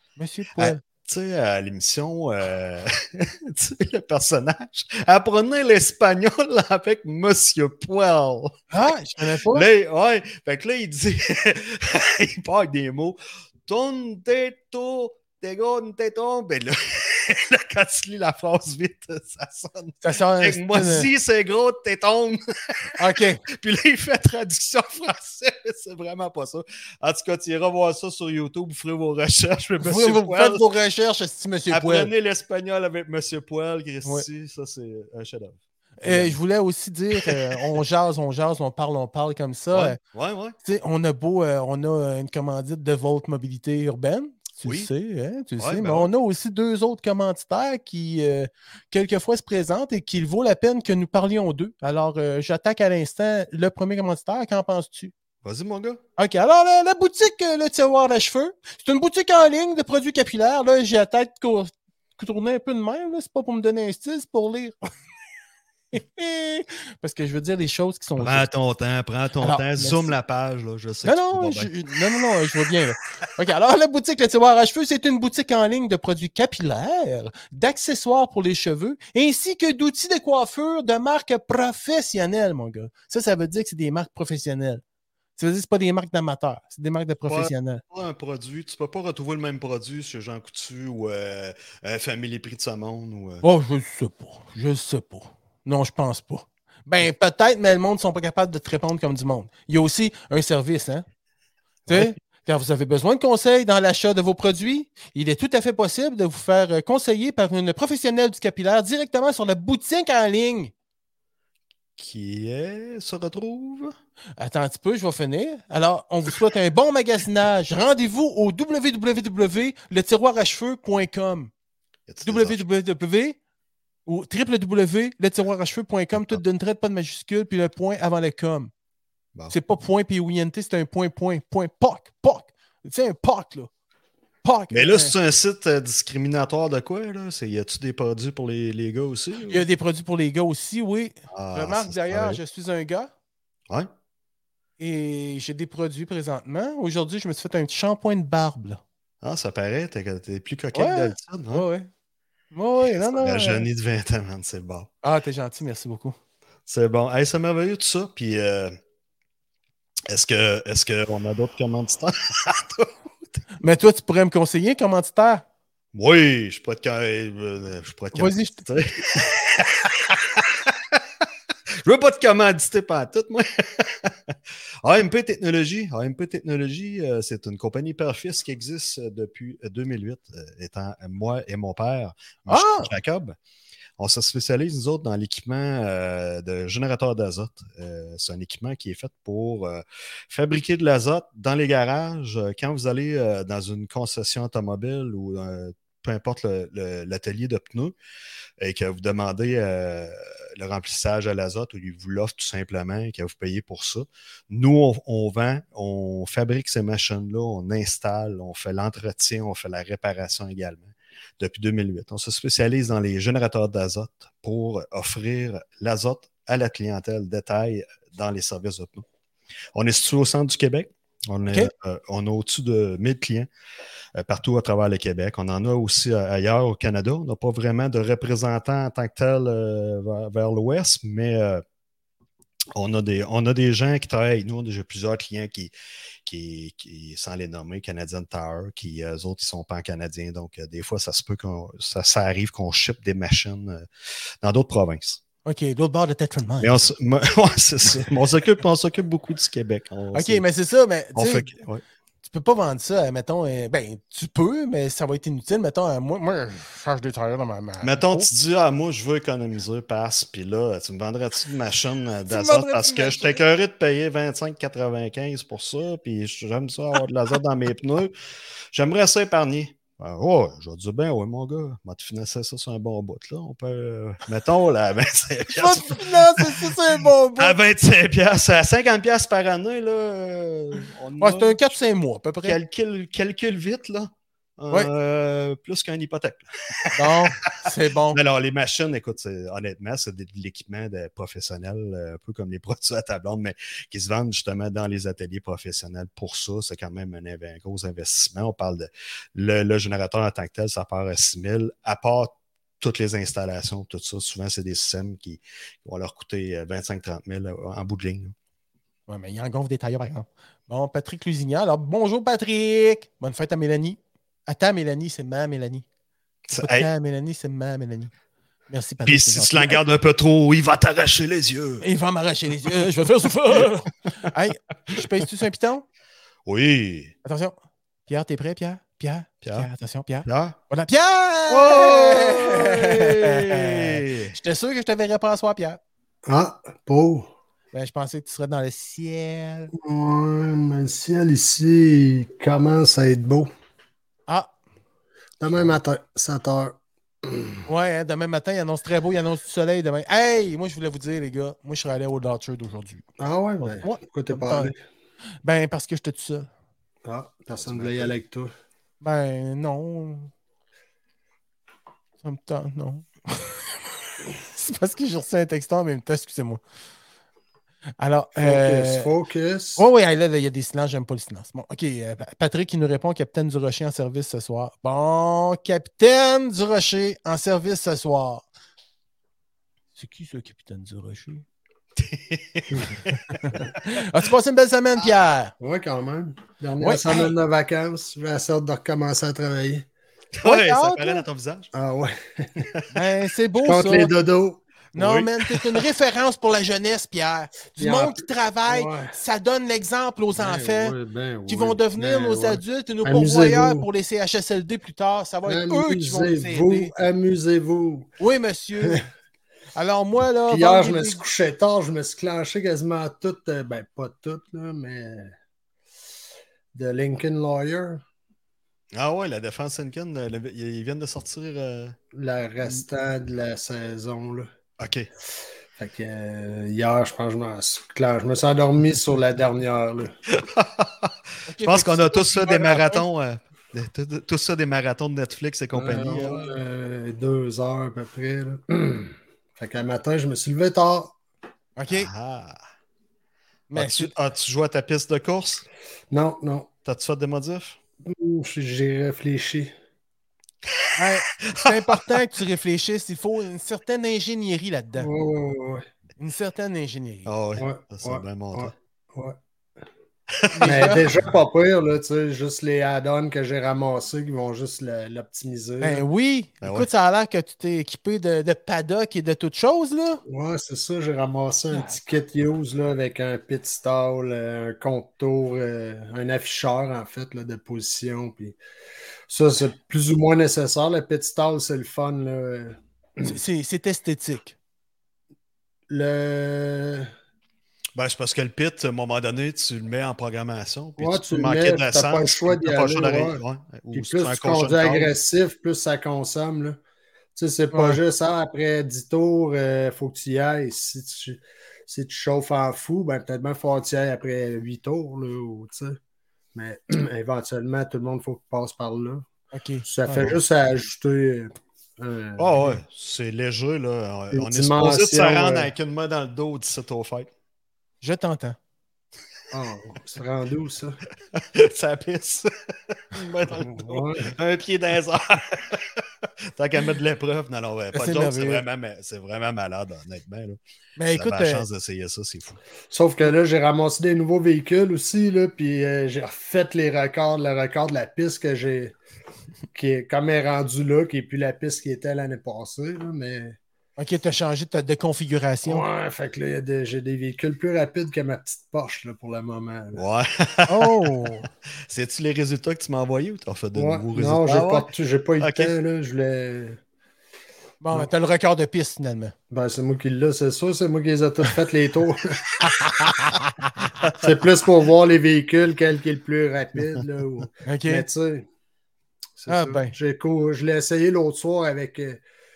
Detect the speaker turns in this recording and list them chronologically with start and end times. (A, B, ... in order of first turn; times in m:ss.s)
0:00.2-0:00.8 A
0:00.6-0:08.5 B
0:08.7-0:09.7 A
0:09.5-0:22.4 B
0:20.0-0:21.1 A
0:23.0-0:23.4 A
0:23.5-0:30.7 B
0:29.8-0:32.1 A
0:31.7-0:36.4 B
0:36.0-0:40.0 A
0:37.2-0:37.5 B
0:39.7-0:40.6 B
0:40.6-0:55.1 A
0:44.6-0:44.9 B
0:45.6-0:46.1 B
0:55.4-0:56.0 B
0:56.2-1:04.8 A
1:05.9-1:08.5 A
1:08.2-1:11.7 B
1:09.4-1:10.2 A
1:11.0-1:24.8 A
1:25.4-1:27.8 A
1:27.3-1:33.4 B
1:33.4-1:41.0 A
1:41.9-1:42.1 B
1:41.9-1:50.7 A
1:52.0-1:54.0 B
1:54.4-2:01.5 A
2:02.1-2:02.6 B
2:02.2-2:03.4 A
2:04.1-2:08.7 A
2:09.5-2:13.7 A
2:14.4-2:15.2 A
2:14.7-2:19.6 B
2:19.5-2:23.1 A
2:21.3-2:22.4 B
2:24.8-2:28.8 A
2:29.2-2:31.7 B
2:30.7-2:31.9 A
2:32.5-2:33.7 A
2:33.0-2:34.9 B
2:35.0-2:36.2 A
2:36.7-2:38.8 B
2:40.1-2:43.4 B
2:43.6-2:45.4 A
2:45.9-2:51.0 B
2:48.1-2:48.6 A
2:51.8-3:03.4 B
3:02.5-3:02.9 A
3:04.0-3:18.0 B
3:18.6-3:39.0 B
3:39.8-3:43.5 B
3:44.2-3:51.6 B
3:52.8-3:55.7 B
3:56.2-4:03.9 B
4:04.4-4:05.2 B
4:05.4-4:06.8 A
4:06.6-4:10.4 B
4:10.1-4:11.5 A
4:11.2-4:11.8 B
4:12.2-4:18.3 A
4:17.8-4:28.1 B
4:22.3-4:23.4 A
4:28.7-4:36.7 B
4:35.5-4:37.6 A
4:37.4-4:41.8 B
4:41.2-4:42.6 A
4:42.4-4:47.6 B
4:46.9-4:48.2 A
4:48.1-5:08.4 B
5:09.1-5:15.8 A
5:16.5-5:16.9 B
5:16.6-5:18.1 A
5:18.7-5:19.8 A
5:19.0-5:21.8 B
5:21.8-5:25.8 A
5:26.5-5:27.1 B
5:27.2-5:27.6 A
5:28.1-5:35.8 A
5:29.4-5:29.7 B
5:30.2-5:30.6 B
5:31.5-5:34.4 B
5:36.3-5:37.3 C
5:37.7-5:39.7 A
5:39.8-5:43.5 C
5:45.4-5:47.6 C
5:47.7-5:53.1 A
5:53.2-5:54.8 C
5:53.6-5:54.7 A
5:55.4-5:56.5 A
5:57.0-5:58.5 C
5:57.6-5:58.2 B
5:59.0-6:00.3 A
6:02.2-6:03.7 A
6:04.4-6:06.6 A
6:08.0-6:09.1 A
6:08.4-6:09.8 C
6:09.8-6:18.5 A
6:20.0-6:21.4 A
6:22.0-6:23.4 B
6:23.4-6:25.5 A
6:25.6-6:29.9 C
6:26.8-6:27.3 A
6:30.4-6:31.7 B
6:30.4-6:31.2 A
6:31.7-6:32.7 C
6:32.9-6:34.1 A
6:33.6-6:34.6 C
6:34.9-6:35.8 B
6:35.0-6:41.0 A
6:37.8-6:39.1 C
6:40.4-6:43.9 C
6:41.5-6:46.9 A
6:45.5-6:48.1 C
6:48.2-6:49.0 A
6:49.8-6:51.2 A
6:50.5-6:55.3 C
6:56.7-6:58.0 C
6:58.9-7:02.0 B
7:02.1-7:04.5 C
7:04.8-7:05.1 B
7:05.8-7:10.1 C
7:10.3-7:16.5 B
7:11.5-7:13.0 A
7:15.7-7:21.2 C
7:21.8-7:22.1 A
7:21.9-7:22.6 B
7:23.7-7:24.1 A
7:23.7-7:25.7 B
7:26.1-7:26.7 C
7:26.8-7:27.8 B
7:28.0-7:29.7 C
7:31.0-7:35.1 A
7:31.4-7:32.2 B
7:35.0-7:35.8 C
7:36.2-7:37.3 A
7:37.3-7:38.7 B
7:37.6-7:39.4 C
7:40.4-7:40.7 B
7:40.5-7:41.1 A
7:40.6-7:46.0 C
7:45.8-7:50.2 A
7:46.6-7:46.9 B
7:50.3-7:58.6 C
7:51.7-7:52.0 A
7:59.3-8:03.3 C
8:03.2-8:04.6 A
8:05.9-8:07.1 C
8:08.0-8:15.1 B
8:11.0-8:13.4 C
8:13.9-8:16.8 C
8:17.4-8:26.0 C
8:17.7-8:18.0 A
8:26.5-8:29.3 C
8:29.5-8:30.4 A
8:29.8-8:32.5 C
8:32.4-8:37.3 B
8:34.3-8:35.7 C
8:38.0-8:38.6 A
8:39.5-8:41.0 C
8:41.3-8:50.6 B
8:43.5-8:44.3 C
8:47.9-8:48.6 A
8:51.0-8:51.6 A
8:51.1-8:52.6 B
8:52.9-8:59.0 C
8:59.7-9:03.6 C
9:04.0-9:05.9 A
9:05.6-9:10.0 C
9:10.0-9:11.0 B
9:10.7-9:11.5 A
9:11.9-9:14.9 B
9:13.8-9:16.8 C
9:15.4-9:15.7 B
9:17.8-9:19.3 A
9:19.5-9:22.6 C
9:22.6-9:23.9 A
9:24.2-9:28.5 C
9:27.7-9:28.1 A
9:29.4-9:32.2 C
9:29.5-9:29.9 A